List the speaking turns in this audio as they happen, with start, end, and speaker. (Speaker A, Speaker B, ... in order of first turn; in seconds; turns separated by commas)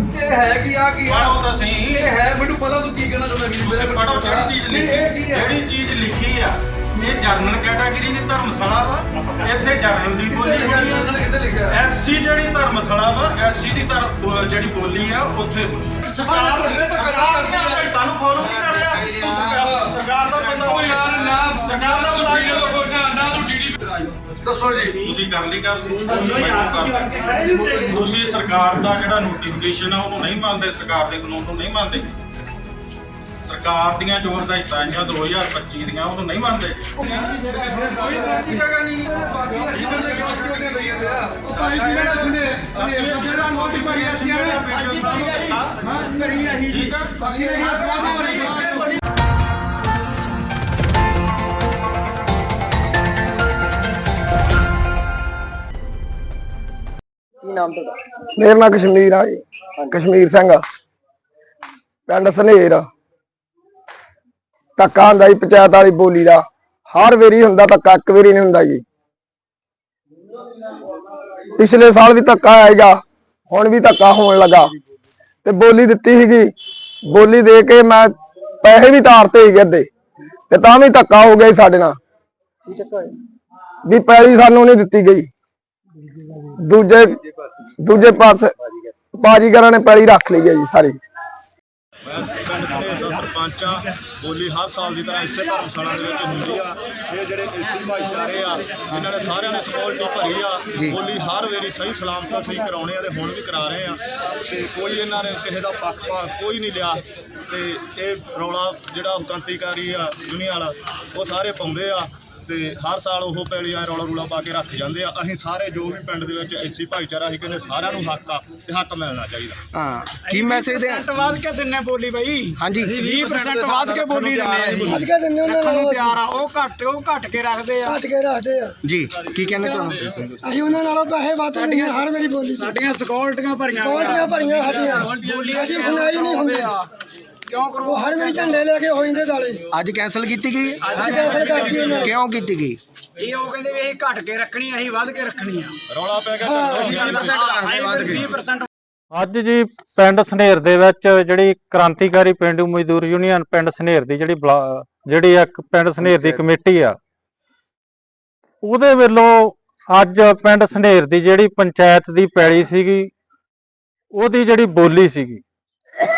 Speaker A: 0.1-5.5, Speaker B: 1.1-2.2, Speaker B: 3.6-23.6, Speaker A: 10.3-11.8, Speaker A: 16.2-17.9, Speaker A: 19.4-20.0, Speaker A: 20.6-25.1, Speaker B: 24.9-32.1, Speaker C: 26.5-28.0, Speaker A: 26.6-28.2, Speaker B: 33.5-45.9, Speaker C: 37.0-38.3, Speaker A: 39.2-48.5, Speaker B: 46.5-49.0, Speaker C: 47.2-48.7, Speaker D: 57.4-60.6, Speaker D: 62.1-62.9, Speaker D: 64.8-68.8, Speaker D: 71.6-73.0, Speaker D: 73.5-74.7, Speaker D: 75.4-76.5, Speaker D: 77.1-79.9, Speaker D: 80.5-82.0, Speaker D: 82.7-83.1, Speaker D: 83.9-85.3, Speaker D: 86.4-87.2, Speaker D: 87.8-88.5, Speaker D: 89.2-91.0, Speaker E: 92.1-119.6, Speaker F: 119.7-121.2, Speaker C: 120.2-128.0, Speaker F: 122.6-123.1, Speaker A: 123.1-124.3, Speaker G: 124.8-126.2, Speaker G: 127.8-128.8, Speaker F: 128.8-130.3, Speaker G: 130.4-132.8, Speaker C: 131.5-136.8, Speaker G: 133.8-136.8, Speaker C: 137.5-138.6, Speaker G: 137.8-139.6, Speaker F: 139.7-140.9, Speaker C: 140.8-141.8, Speaker G: 140.9-142.2, Speaker F: 141.6-142.8, Speaker C: 143.2-145.8, Speaker E: 145.9-147.6, Speaker G: 146.4-146.9, Speaker C: 146.9-148.7, Speaker F: 147.4-148.2, Speaker H: 149.1-157.0, Speaker H: 158.6-163.1, Speaker H: 164.1-165.4